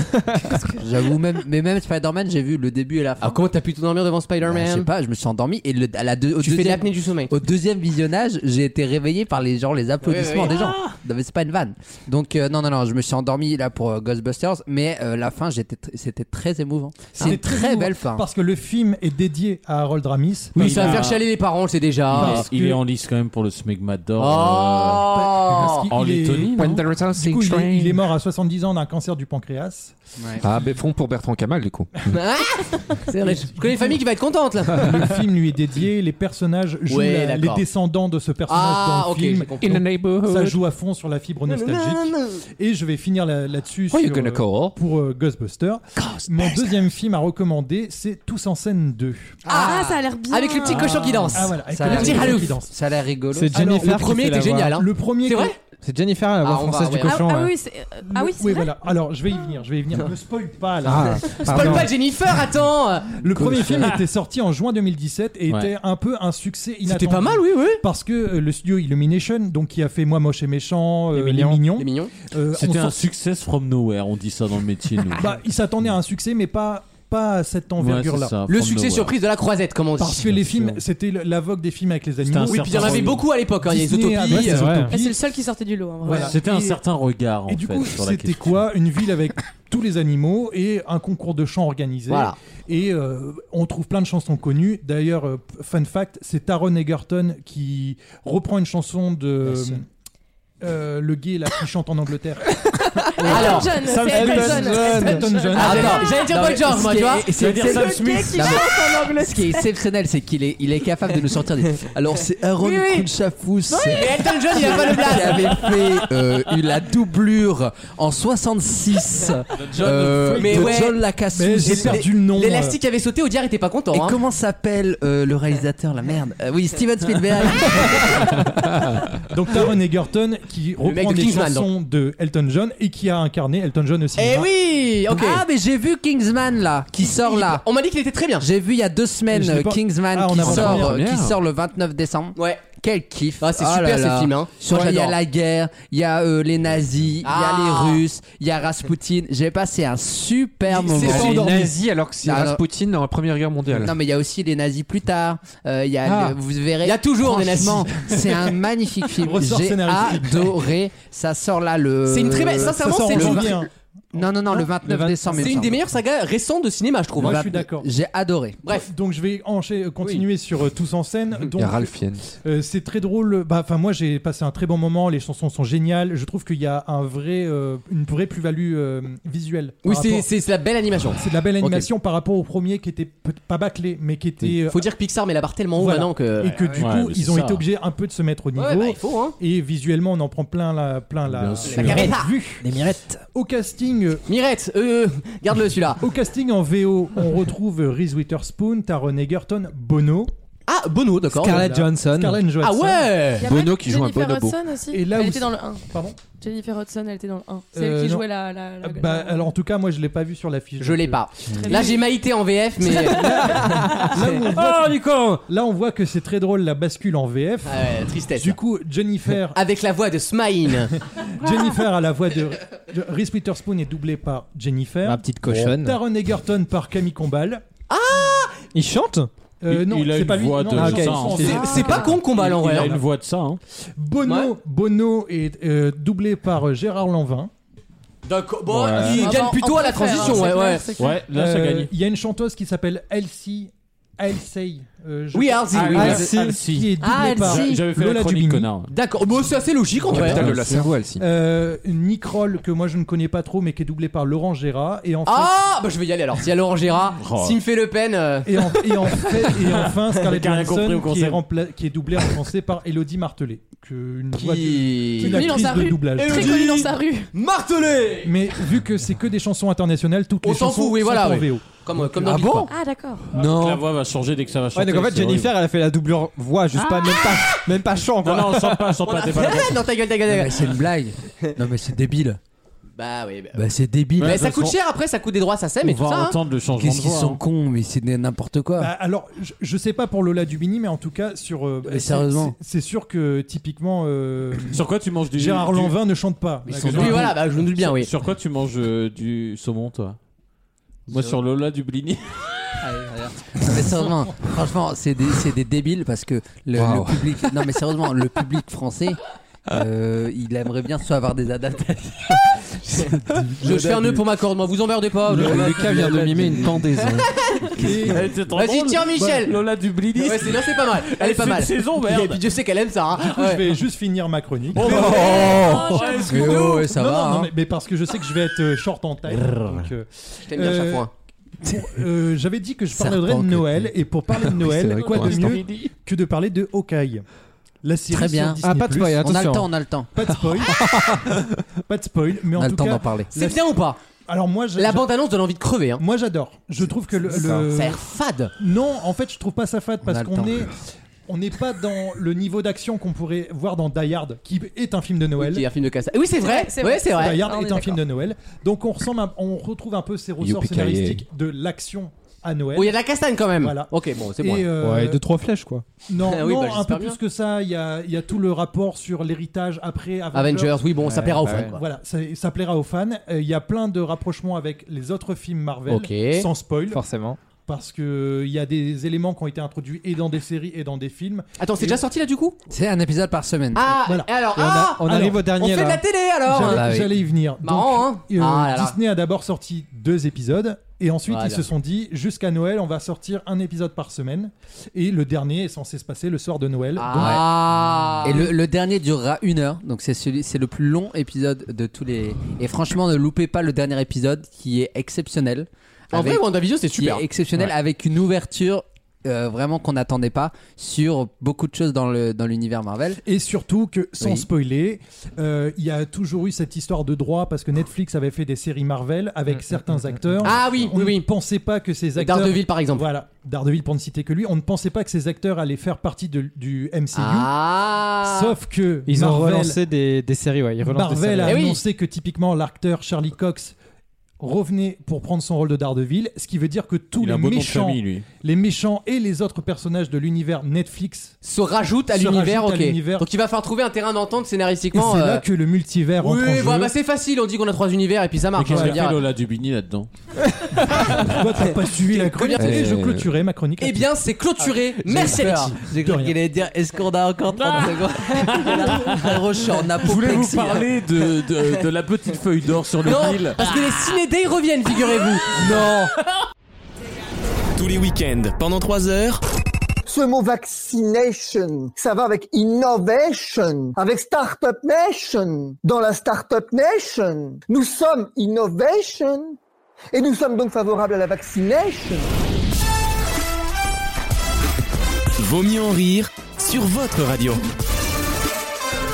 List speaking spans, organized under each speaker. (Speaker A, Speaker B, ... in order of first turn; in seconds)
Speaker A: 0.5-3.4, 4.4-18.2, 30.2-30.4, 49.5-50.0, 51.0-53.6, 99.5-99.8, 103.2-103.5, 105.6-122.0, 123.9-128.4, 135.1-137.6, 138.4-151.7, 152.2-152.6, 153.8-163.6, 164.1-165.8, 167.2-168.6, 247.0-247.5, 272.3-272.7, 280.3-282.4, 283.6-284.7, 286.8-288.9, 291.9-292.6, 296.7-297.3, 302.8-309.2, 309.7-312.6, 326.2-327.5, 332.9-333.9, 338.1-340.1, 342.6-343.3, 350.1-350.6, 382.7-383.9, 386.6-387.1, 397.2-413.2, 455.1-460.9, 465.6-466.1
Speaker B: 3.2-4.9, 6.4-7.3, 10.0-10.8, 20.6-22.5, 24.2-25.9, 32.1-35.2, 36.9-37.6, 38.5-39.8, 41.5-42.4, 50.3-52.5, 53.7-55.6, 56.4-57.3, 61.3-63.8, 66.8-67.8, 71.8-72.2, 78.5-80.4, 82.5-84.8, 92.1-92.4, 103.3-103.8, 105.5-107.4, 112.6-113.1, 113.8-115.8, 120.4-121.0, 121.7-124.2, 130.8-131.7, 134.2-135.4, 137.0-138.5, 142.4-142.6, 143.4-145.2, 147.2-148.0, 150.7-151.5, 156.8-158.0, 162.1-163.6, 165.3-167.6, 179.8-181.9, 184.6-186.6, 188.6-189.4, 191.6-192.3, 194.3-196.0, 200.7-201.9, 202.6-203.5, 210.8-214.3, 217.7-218.6, 219.5-220.9, 227.9-228.6, 231.4-232.9, 234.2-234.5, 238.3-240.9, 245.3-246.3, 247.1-247.8, 248.9-250.5, 255.3-259.7, 264.3-268.4, 270.4-272.7, 277.2-277.6, 279.0-280.8, 283.0-283.6, 284.2-286.4, 296.8-298.1, 312.9-317.9, 318.5-319.5, 320.2-323.8, 324.9-325.8, 326.3-326.9, 330.5-331.1, 343.4-344.0, 344.8-346.0, 347.5-348.5, 355.4-357.4, 362.8-364.7, 366.2-367.2, 370.3-371.8, 375.9-376.5, 381.6-382.6, 383.8-387.0, 387.6-389.0, 391.3-391.6, 397.0-398.5, 406.1-407.2, 420.4-421.3, 422.1-423.1, 427.1-428.6, 431.4-431.8, 441.4-445.4, 446.2-449.2, 451.6-452.9, 453.8-455.8, 463.0-466.1
Speaker C: 17.2-21.0, 22.1-22.8, 25.1-29.9, 33.2-34.0, 34.7-49.4, 50.8-52.7, 53.5-55.5, 58.0-61.9, 63.1-73.0, 75.2-78.4, 80.0-85.2, 86.0-86.8, 87.5-99.8, 100.6-102.6, 103.3-106.1, 121.3-122.8, 129.3-134.5, 139.3-141.0, 159.2-160.7, 162.6-163.7, 164.5-165.6, 167.2-167.9, 168.7-180.3, 181.2-184.9, 185.8-192.7, 193.3-194.3, 196.0-200.3, 202.0-203.3, 204.9-206.2, 207.7-208.3, 208.8-211.9, 212.9-217.8, 218.3-219.6, 221.2-227.6, 229.6-233.0, 234.0-237.5, 239.0-239.3, 241.3-248.7, 250.2-250.5, 251.2-255.5, 258.4-266.6, 268.2-272.5, 288.8-297.5, 317.8-318.3, 323.1-325.3, 326.6-331.1, 331.6-337.2, 337.8-339.4, 340.1-340.9, 341.9-343.6, 344.3-345.1, 346.0-348.0, 348.6-355.6, 357.1-363.0, 363.6-365.2, 366.1-382.0, 384.1-384.4, 385.0-385.5, 386.4-397.6, 413.2-427.6, 428.2-429.8, 430.8-433.8, 434.4-441.4, 442.1-443.3, 444.9-446.9, 448.7-449.0, 450.8-454.1, 455.1-456.4
Speaker D: 20.6-21.3, 22.1-25.1, 25.7-26.8, 63.7-64.0, 72.5-75.2, 77.8-79.2, 82.3-83.2, 86.1-88.6, 103.8-104.7, 107.4-108.6, 119.5-120.8, 186.8-187.6, 191.3-192.1, 214.5-215.0, 229.7-233.6, 238.7-239.3, 241.0-241.9, 245.7-248.9, 257.2-257.6, 259.8-261.4, 273.3-275.5, 276.7-277.3, 278.2-279.9, 284.2-284.7, 285.8-287.4, 294.7-296.0, 296.7-300.2, 301.1-302.4, 318.0-322.4, 324.8-326.6, 329.3-329.9, 335.0-335.9, 437.2-438.3, 448.6-450.1, 457.6-459.4, 460.0-463.7
Speaker E: 26.5-28.0, 30.4-32.1, 39.6-40.6, 43.9-44.8, 140.4-141.4, 150.9-153.9, 171.6-172.3, 203.4-204.6, 250.1-251.2, 273.4-273.8, 306.8-307.4, 315.3-318.1, 324.8-326.0, 334.4-335.6, 360.4-361.2, 452.6-453.3
Speaker F: 49.5-51.3, 57.0-58.7, 84.8-86.4, 103.2-106.1, 107.5-109.7, 203.4-209.5, 211.6-212.1, 213.3-213.7, 231.4-232.2, 239.1-241.2, 265.2-267.3, 272.7-273.2, 324.9-326.7, 356.4-358.0
Speaker G: 53.3-54.8, 55.8-57.5, 60.8-61.9, 71.1-71.7, 84.3-84.9, 104.0-105.2, 191.8-192.1, 192.6-193.2, 201.3-202.5, 225.0-226.0, 228.7-229.3, 230.7-231.6, 245.9-246.6, 250.5-250.9, 274.8-278.9, 338.6-339.7, 364.8-365.8, 371.0-371.8, 376.9-377.4, 384.5-386.0, 419.6-420.4, 429.1-431.7
Speaker H: 467.8-469.4, 485.4-487.6
Speaker I: 470.1-479.6, 480.1-482.3